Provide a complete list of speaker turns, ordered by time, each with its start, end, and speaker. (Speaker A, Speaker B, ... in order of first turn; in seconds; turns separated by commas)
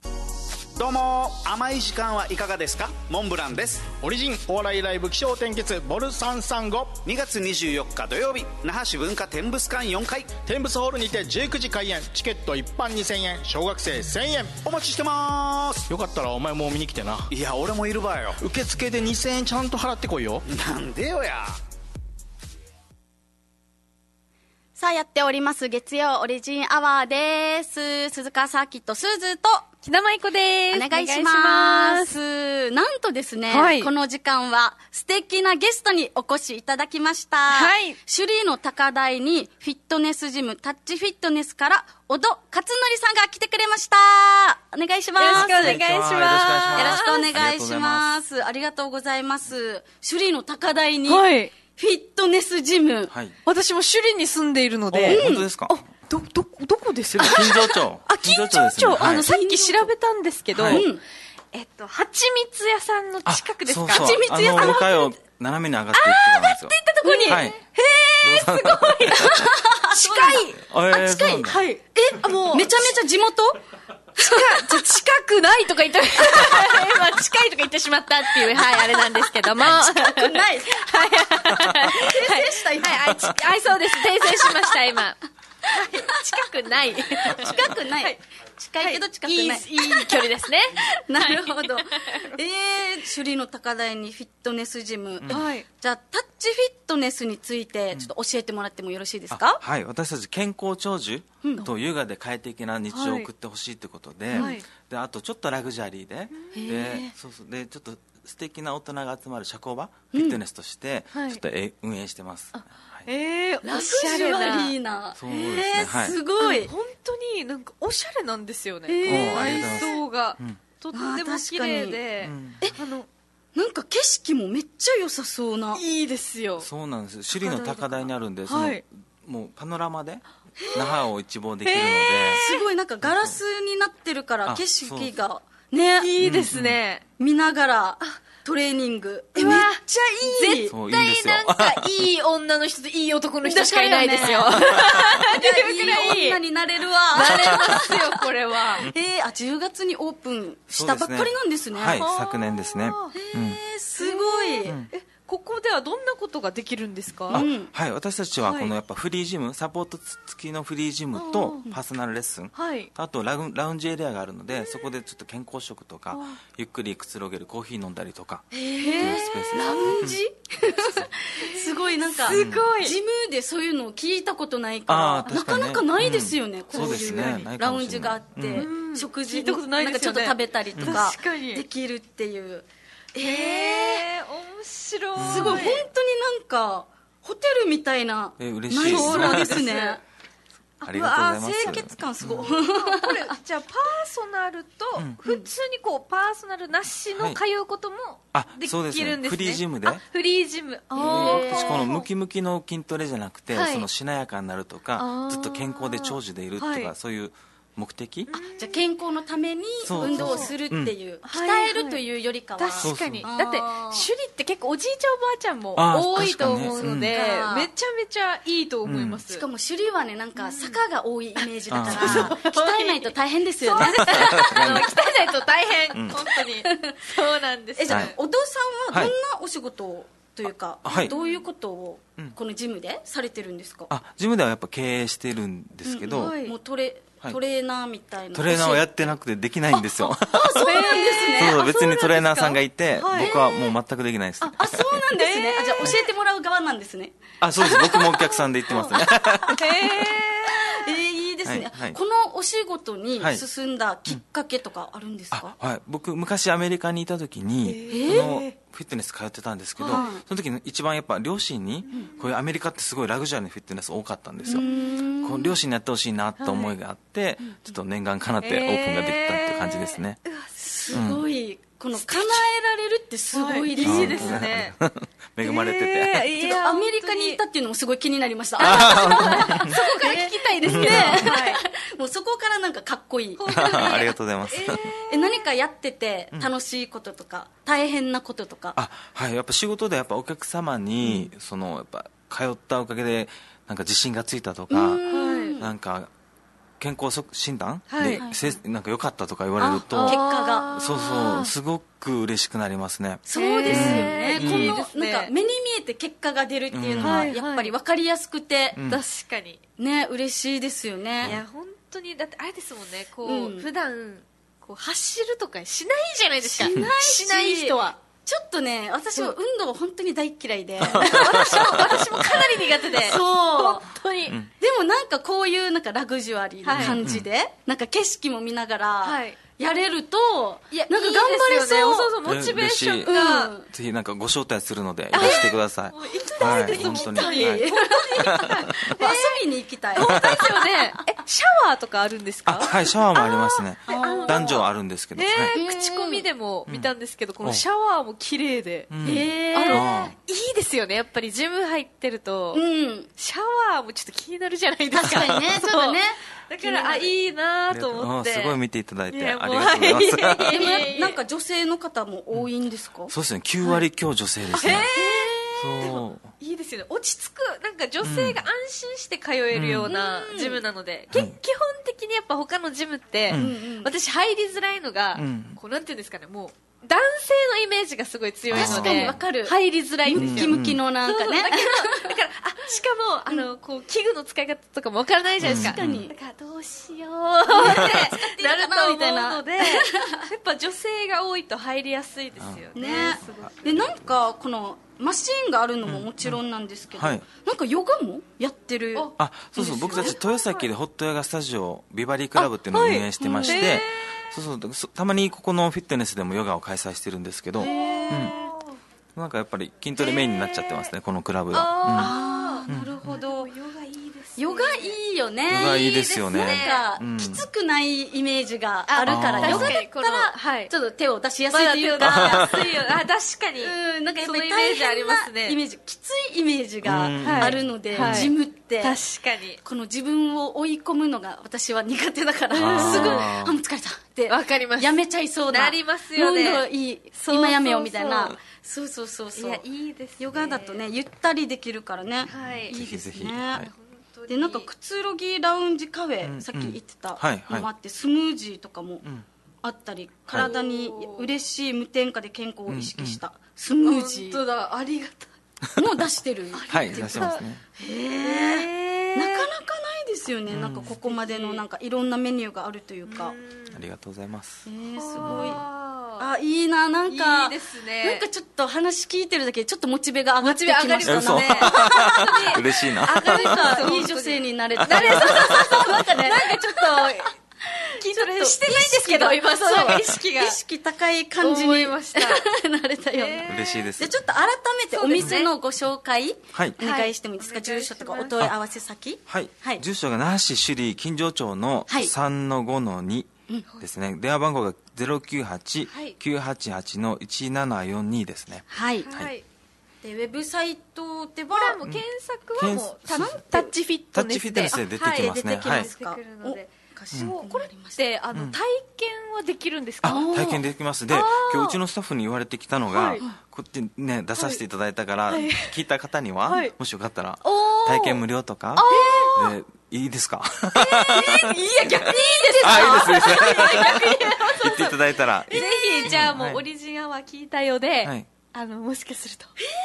Speaker A: 0.7-3.9, Speaker B: 4.0-7.0, Speaker A: 7.0-10.3, Speaker B: 10.4-14.6, Speaker A: 14.6-15.8, Speaker B: 15.9-17.3, Speaker A: 17.3-18.4, Speaker B: 18.4-20.4, Speaker A: 20.5-21.6, Speaker C: 24.8-29.7, Speaker D: 29.8-32.1, Speaker C: 30.7-45.8, Speaker D: 33.5-33.9, Speaker D: 37.5-38.0, Speaker D: 45.2-47.3, Speaker E: 45.3-48.1, Speaker C: 46.8-53.1, Speaker D: 51.1-51.5, Speaker E: 53.1-53.3, Speaker D: 53.5-60.9, Speaker E: 54.9-55.8, Speaker C: 55.1-55.5, Speaker E: 57.1-59.3, Speaker C: 59.0-59.9, Speaker E: 60.5-60.8, Speaker C: 60.7-61.0, Speaker D: 61.5-64.9, Speaker E: 63.2-67.6, Speaker C: 63.9-65.0, Speaker D: 65.9-70.6, Speaker C: 67.0-67.5, Speaker E: 68.2-69.4, Speaker C: 69.2-73.6, Speaker E: 70.7-71.6, Speaker D: 71.5-72.9, Speaker C: 74.2-74.8, Speaker D: 74.2-88.2, Speaker C: 79.7-83.1, Speaker C: 84.2-84.7, Speaker C: 85.7-90.2, Speaker D: 88.8-92.3, Speaker C: 90.8-99.6, Speaker E: 95.2-95.5, Speaker D: 95.3-95.6, Speaker E: 99.3-113.1, Speaker D: 102.9-103.3, Speaker D: 104.3-104.6, Speaker D: 106.3-106.9, Speaker C: 106.5-107.1, Speaker C: 110.1-110.4, Speaker D: 111.1-111.4, Speaker D: 112.5-114.7, Speaker C: 113.6-116.7, Speaker E: 115.2-116.2, Speaker D: 116.4-123.1, Speaker C: 118.9-119.9, Speaker E: 119.0-120.6, Speaker C: 120.9-122.0, Speaker E: 122.2-122.7, Speaker C: 123.5-125.8, Speaker D: 125.7-126.7, Speaker E: 126.6-132.4, Speaker D: 127.4-128.8, Speaker C: 130.6-130.9, Speaker D: 131.6-132.7, Speaker C: 132.3-136.1, Speaker E: 133.0-133.4, Speaker E: 134.4-135.1, Speaker D: 136.0-137.0, Speaker E: 136.2-136.8, Speaker C: 137.2-140.7, Speaker D: 139.3-146.4, Speaker E: 140.7-141.9, Speaker C: 143.4-152.0, Speaker D: 147.1-148.9, Speaker E: 147.3-147.7, Speaker E: 150.7-153.6, Speaker D: 151.9-153.1, Speaker C: 153.1-154.8, Speaker D: 154.0-157.4, Speaker C: 157.3-157.7, Speaker E: 157.3-170.2, Speaker D: 158.4-158.7, Speaker D: 161.1-161.6, Speaker D: 162.5-162.9, Speaker D: 166.1-166.4, Speaker D: 168.5-169.4, Speaker C: 168.5-184.1, Speaker D: 171.4-172.9, Speaker E: 172.3-172.7, Speaker E: 174.9-178.7, Speaker D: 176.7-177.5, Speaker D: 178.5-181.6, Speaker D: 183.2-185.8, Speaker E: 185.2-185.8, Speaker C: 185.2-190.0, Speaker E: 188.4-189.7, Speaker D: 188.8-190.0, Speaker D: 190.8-191.8, Speaker E: 190.8-192.6, Speaker C: 190.9-193.3, Speaker D: 192.5-202.1, Speaker E: 197.1-197.4, Speaker E: 198.3-200.0, Speaker C: 200.9-201.8, Speaker E: 201.0-208.4, Speaker D: 203.5-203.9, Speaker D: 205.0-206.9, Speaker D: 208.3-208.8, Speaker C: 208.5-214.1, Speaker E: 209.8-210.9, Speaker D: 209.9-210.5, Speaker D: 211.2-212.0, Speaker D: 212.6-219.4, Speaker E: 212.8-213.3, Speaker E: 215.8-217.1, Speaker C: 216.8-217.7, Speaker E: 218.8-219.2, Speaker C: 219.3-225.1, Speaker D: 220.4-220.8, Speaker D: 221.4-228.1, Speaker E: 221.7-222.3, Speaker E: 223.8-224.9, Speaker C: 226.2-227.1, Speaker C: 227.8-233.9, Speaker E: 227.9-228.1, Speaker E: 230.8-231.1, Speaker D: 231.0-231.4, Speaker E: 233.9-236.3, Speaker C: 235.8-238.8, Speaker D: 236.1-236.5, Speaker E: 238.3-245.1, Speaker C: 240.2-241.7, Speaker D: 240.5-243.3, Speaker C: 243.1-243.7, Speaker C: 244.4-248.1, Speaker D: 245.1-245.9, Speaker E: 247.4-250.0, Speaker D: 247.7-250.9, Speaker C: 248.7-255.5, Speaker E: 251.4-252.0, Speaker E: 253.2-253.4, Speaker E: 255.3-264.6, Speaker D: 257.6-258.5, Speaker C: 257.9-258.3, Speaker C: 259.8-260.2, Speaker D: 259.8-260.1, Speaker D: 261.9-262.2, Speaker C: 264.5-265.6, Speaker D: 264.5-264.8, Speaker E: 265.2-270.2, Speaker D: 266.4-266.7, Speaker D: 268.4-271.1, Speaker C: 270.6-274.4, Speaker E: 270.9-271.2, Speaker D: 271.9-272.5, Speaker D: 273.3-274.7, Speaker E: 273.8-276.3, Speaker D: 275.4-277.4, Speaker C: 276.4-284.0, Speaker D: 278.6-281.6, Speaker E: 278.6-279.8, Speaker E: 280.6-281.3, Speaker D: 283.4-285.4, Speaker E: 283.5-284.9, Speaker C: 285.1-288.8, Speaker E: 288.8-295.0, Speaker C: 294.7-295.7, Speaker D: 295.1-295.6, Speaker E: 295.6-296.1, Speaker E: 296.8-300.2, Speaker D: 297.9-298.2, Speaker C: 298.2-298.5, Speaker C: 299.6-300.8, Speaker D: 299.9-301.5, Speaker E: 300.7-304.8, Speaker C: 303.2-308.8, Speaker D: 303.3-305.3, Speaker E: 306.7-307.3, Speaker D: 307.0-307.7, Speaker E: 308.7-309.0, Speaker D: 308.9-309.6, Speaker C: 309.8-311.3, Speaker D: 311.2-317.9, Speaker C: 313.2-313.7, Speaker C: 316.4-322.0, Speaker E: 316.6-316.9, Speaker E: 320.8-322.4, Speaker D: 320.9-324.4, Speaker C: 322.9-323.9, Speaker C: 324.6-332.1, Speaker D: 326.6-327.0, Speaker E: 326.7-327.3, Speaker D: 329.0-329.4, Speaker D: 330.7-333.5, Speaker E: 332.2-338.9, Speaker C: 333.1-333.7, Speaker D: 335.1-339.4, Speaker C: 335.1-335.4, Speaker C: 336.1-341.0, Speaker D: 339.9-342.7, Speaker E: 340.0-340.4, Speaker E: 342.5-345.6, Speaker C: 342.7-344.6, Speaker D: 343.9-344.6, Speaker D: 345.1-349.0, Speaker C: 345.5-346.2, Speaker E: 348.9-350.1, Speaker C: 349.0-349.9, Speaker D: 349.5-352.6, Speaker C: 352.5-353.1, Speaker D: 353.2-358.6, Speaker C: 354.9-357.1, Speaker E: 357.7-360.6, Speaker D: 359.1-361.2, Speaker C: 360.5-363.1, Speaker E: 363.1-364.9, Speaker D: 364.5-393.8, Speaker C: 364.7-366.0, Speaker E: 365.6-366.3, Speaker E: 368.0-368.4, Speaker E: 369.5-369.9, Speaker C: 369.9-370.6, Speaker E: 373.3-373.5, Speaker C: 373.3-373.9, Speaker E: 375.1-375.6, Speaker E: 378.5-379.2, Speaker C: 378.5-379.5, Speaker C: 380.0-382.1, Speaker E: 380.1-380.8, Speaker E: 385.4-386.1, Speaker C: 385.4-386.1, Speaker C: 387.5-390.2, Speaker E: 387.6-388.0, Speaker E: 392.4-394.1, Speaker C: 392.7-399.1, Speaker E: 395.8-396.4, Speaker E: 396.9-397.2, Speaker D: 398.9-400.6, Speaker E: 399.2-408.3, Speaker C: 399.7-400.1, Speaker D: 402.4-404.2, Speaker C: 403.2-403.8, Speaker D: 407.6-408.8, Speaker C: 407.6-408.5, Speaker E: 409.1-412.1, Speaker D: 410.0-410.9, Speaker D: 411.5-415.0, Speaker C: 411.9-413.5, Speaker E: 412.7-413.1, Speaker C: 414.4-422.8, Speaker E: 415.5-417.4, Speaker D: 415.6-416.8, Speaker D: 418.9-420.7, Speaker E: 419.0-419.8, Speaker D: 421.5-425.6, Speaker E: 422.0-422.7, Speaker C: 423.6-429.0, Speaker E: 426.8-428.3, Speaker D: 427.2-429.6, Speaker C: 429.6-439.6, Speaker D: 432.5-433.3, Speaker E: 432.5-433.6, Speaker D: 434.3-435.0, Speaker D: 435.5-438.4, Speaker D: 439.3-440.8, Speaker C: 440.2-443.6, Speaker D: 442.3-442.7, Speaker E: 442.3-443.7, Speaker D: 443.5-444.7, Speaker C: 444.3-449.0, Speaker E: 446.2-447.7, Speaker C: 449.6-454.4, Speaker D: 450.4-451.3, Speaker E: 452.7-453.2, Speaker D: 453.8-455.3, Speaker C: 455.8-463.3, Speaker D: 456.5-457.4, Speaker E: 456.7-457.6, Speaker D: 458.2-459.5, Speaker E: 460.5-461.0, Speaker D: 461.0-461.6, Speaker D: 463.1-463.8, Speaker E: 463.7-464.6, Speaker C: 464.6-465.6, Speaker D: 465.0-466.2, Speaker E: 465.2-465.6, Speaker C: 466.2-472.6, Speaker D: 467.1-468.2, Speaker D: 470.4-477.3, Speaker E: 471.0-474.0, Speaker C: 473.1-489.8, Speaker E: 474.8-475.9, Speaker D: 478.0-480.6, Speaker D: 481.4-482.4, Speaker D: 483.1-483.9, Speaker E: 483.4-484.2, Speaker D: 484.9-485.5, Speaker D: 486.8-488.5, Speaker E: 489.3-499.3, Speaker D: 495.9-496.2, Speaker C: 498.7-499.1, Speaker D: 499.0-499.4, Speaker C: 500.0-501.8, Speaker D: 501.5-510.6, Speaker E: 502.6-503.3, Speaker C: 503.1-503.7, Speaker E: 504.1-505.9, Speaker C: 504.8-508.0, Speaker E: 510.0-522.1, Speaker C: 510.0-510.6, Speaker D: 511.1-511.8, Speaker D: 512.9-513.2, Speaker D: 515.3-515.8, Speaker D: 516.5-516.7, Speaker D: 517.4-518.2, Speaker D: 518.8-519.5, Speaker C: 518.9-519.4, Speaker D: 520.8-529.5, Speaker C: 521.4-524.9, Speaker E: 522.6-526.6, Speaker C: 525.5-526.3